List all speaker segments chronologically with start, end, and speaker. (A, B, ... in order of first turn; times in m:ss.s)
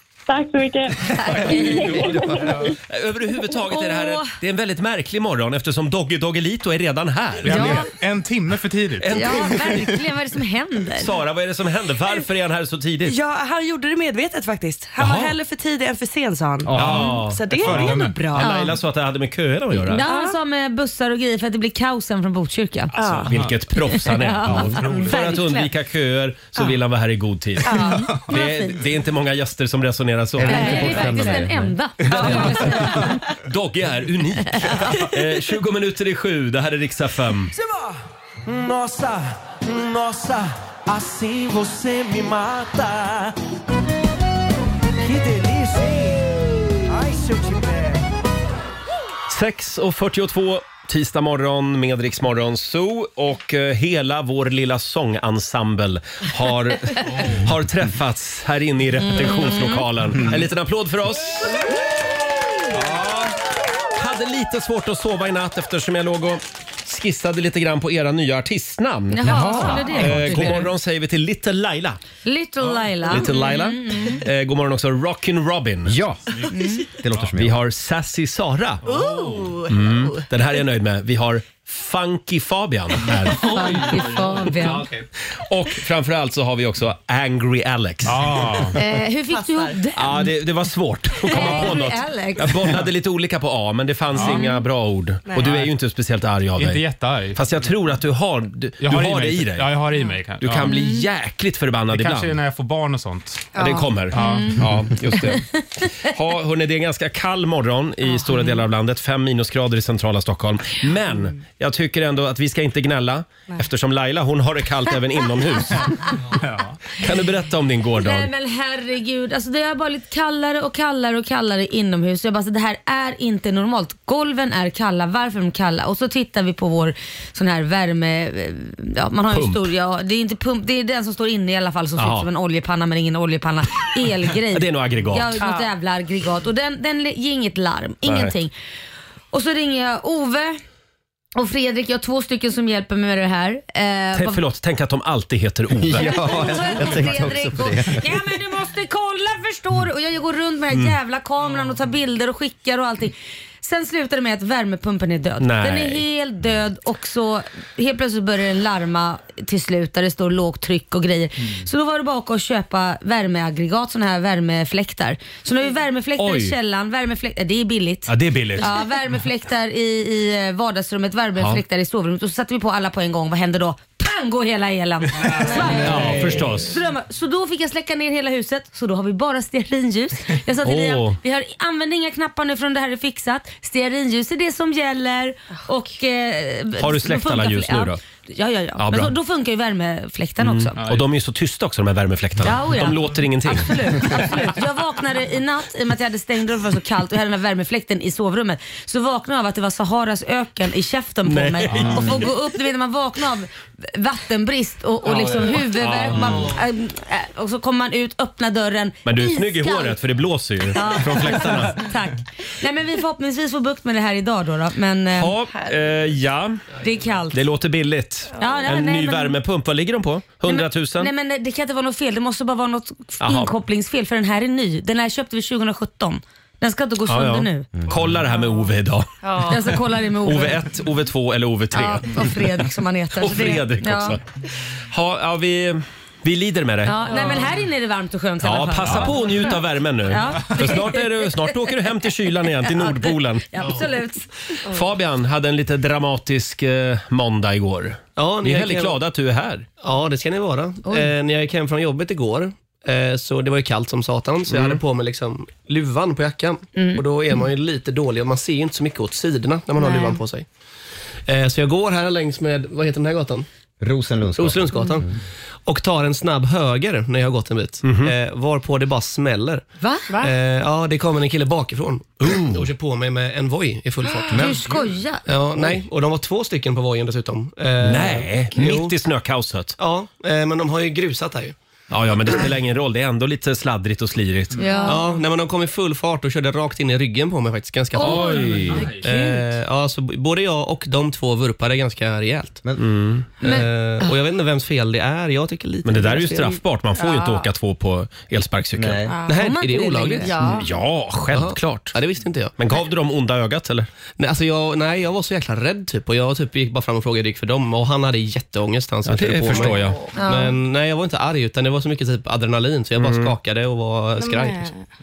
0:00.3-0:02.7 A
0:01.2-0:01.9 B
0:01.3-0:07.9 C
0:01.6-0:02.8 D
0:03.7-0:04.4 B
0:07.4-0:09.3 D
0:07.5-0:07.9 B
0:09.0-0:10.0 C
0:09.1-0:11.1 B
0:11.0-0:13.2 C
0:13.0-0:18.7 E
0:15.0-0:15.4 C
0:16.7-0:20.0 C
0:16.7-0:18.4 D
0:18.4-0:18.8 B
0:19.9-0:20.4 E
0:19.9-0:23.0 B
0:22.9-0:27.7 C
0:23.0-0:23.3 E
0:23.9-0:25.7 B
0:24.4-0:25.2 D
0:27.6-0:28.1 E
0:27.7-0:28.8 B
0:28.3-0:31.1 C
0:30.4-0:31.8 F
0:30.4-0:33.2 B
0:30.5-0:31.4 E
0:32.2-0:33.1 D
0:32.2-0:37.5 C
0:34.6-0:35.0 B
0:38.5-0:43.4 G
0:45.0-0:46.3 G
0:46.9-0:48.0 G
0:49.3-1:01.7 C
0:57.1-0:57.4 D
0:59.0-0:59.9 B
1:02.7-1:03.3 C
1:04.0-1:12.0 C
1:09.1-1:10.7 B
1:09.2-1:10.4 F
1:09.5-1:10.3 D
1:12.2-1:14.2 B
1:12.6-1:12.9 D
1:13.1-1:16.0 C
1:15.9-1:16.4 F
1:16.5-1:16.8 B
1:17.0-1:17.6 F
1:17.4-1:18.8 C
1:18.8-1:19.6 D
1:18.8-1:20.3 E
1:19.7-1:23.5 C
1:23.0-1:25.0 D
1:23.4-1:24.9 B
1:25.4-1:28.7 C
1:28.0-1:28.8 D
1:28.8-1:30.3 B
1:29.3-1:29.8 E
1:30.0-1:36.8 C
1:31.3-1:32.7 B
1:34.1-1:34.5 D
1:35.4-1:35.7 D
1:36.6-1:37.4 D
1:37.4-1:39.8 C
1:38.8-1:40.8 D
1:40.4-1:42.4 C
1:40.7-1:41.0 B
1:41.9-1:43.6 D
1:43.6-1:44.4 E
1:43.6-1:56.2 C
1:44.1-1:44.5 D
1:44.2-1:44.5 B
1:55.8-1:56.1 B
1:56.3-1:57.0 D
1:57.0-1:58.3 C
1:58.0-2:18.5 B
2:09.3-2:09.6 C
2:12.0-2:12.3 C
2:14.5-2:15.5 C
2:18.1-2:18.3 C
2:19.3-2:20.6 B
2:21.4-2:24.4 B
2:24.1-2:27.0 C
2:25.7-2:28.1 F
2:26.0-3:10.8 B
2:30.7-2:31.0 C
2:35.4-2:36.0 C
2:46.2-2:46.6 C
2:48.1-2:48.8 D
2:55.3-2:56.4 D
2:55.8-2:56.7 C
3:00.6-3:01.2 C
3:06.8-3:08.0 C
3:08.8-3:09.1 C
3:10.4-3:14.2 C
3:10.8-3:11.1 D
3:12.4-3:30.0 B
3:21.3-3:22.2 C
3:21.7-3:22.2 F
3:25.7-3:26.6 C
3:29.0-3:31.8 C
3:30.7-3:35.4 B
3:35.1-3:36.7 C
3:36.8-3:37.4 B
3:37.3-3:41.1 C
3:38.4-3:39.4 B
3:40.4-3:47.7 B
3:43.2-3:43.5 C
3:47.1-3:49.6 C
3:47.8-3:48.2 F
3:49.2-3:49.5 E
3:49.4-3:50.6 B
3:50.2-3:52.2 C
3:51.7-3:54.2 B
3:53.2-3:54.2 C
3:54.9-3:57.1 C
3:56.9-3:59.5 B
3:57.0-3:57.5 E
3:58.4-4:03.8 C
4:00.1-4:01.7 B
4:02.6-4:04.6 B
4:04.6-4:09.7 C
4:08.2-4:09.0 H
4:09.8-4:20.5 H
4:10.8-4:11.1 B
4:14.5-4:14.8 C
4:16.8-4:17.0 B
4:19.8-4:20.2 E
4:21.3-4:23.5 H
4:23.8-4:25.1 F
4:24.4-4:29.7 H
4:27.8-4:28.1 C
4:29.8-4:30.1 B
4:30.2-4:34.7 H
4:32.2-4:32.6 C
4:34.3-4:34.6 F
4:34.3-4:35.3 B
4:35.3-4:39.0 H
4:37.8-4:39.8 C
4:39.8-4:41.6 H
4:41.9-4:44.7 C
4:44.6-4:45.0 B
4:44.8-4:52.6 H
4:48.0-4:49.5 B
4:48.0-4:48.9 C
4:48.3-4:49.0 D
4:52.8-4:53.3 C
4:53.4-4:56.6 H
4:53.4-4:53.7 B
4:55.8-4:59.0 C
4:57.0-4:57.4 E
4:58.8-4:59.2 F
4:59.1-4:59.4 E
4:59.3-5:00.4 B
4:59.3-5:00.5 H
5:00.2-5:00.6 E
5:00.5-5:02.0 C
5:01.3-5:02.5 H
5:02.6-5:03.9 C
5:04.2-5:14.7 H
5:09.1-5:10.0 C
5:10.2-5:10.5 B
5:13.0-5:13.4 C
5:14.2-5:14.8 E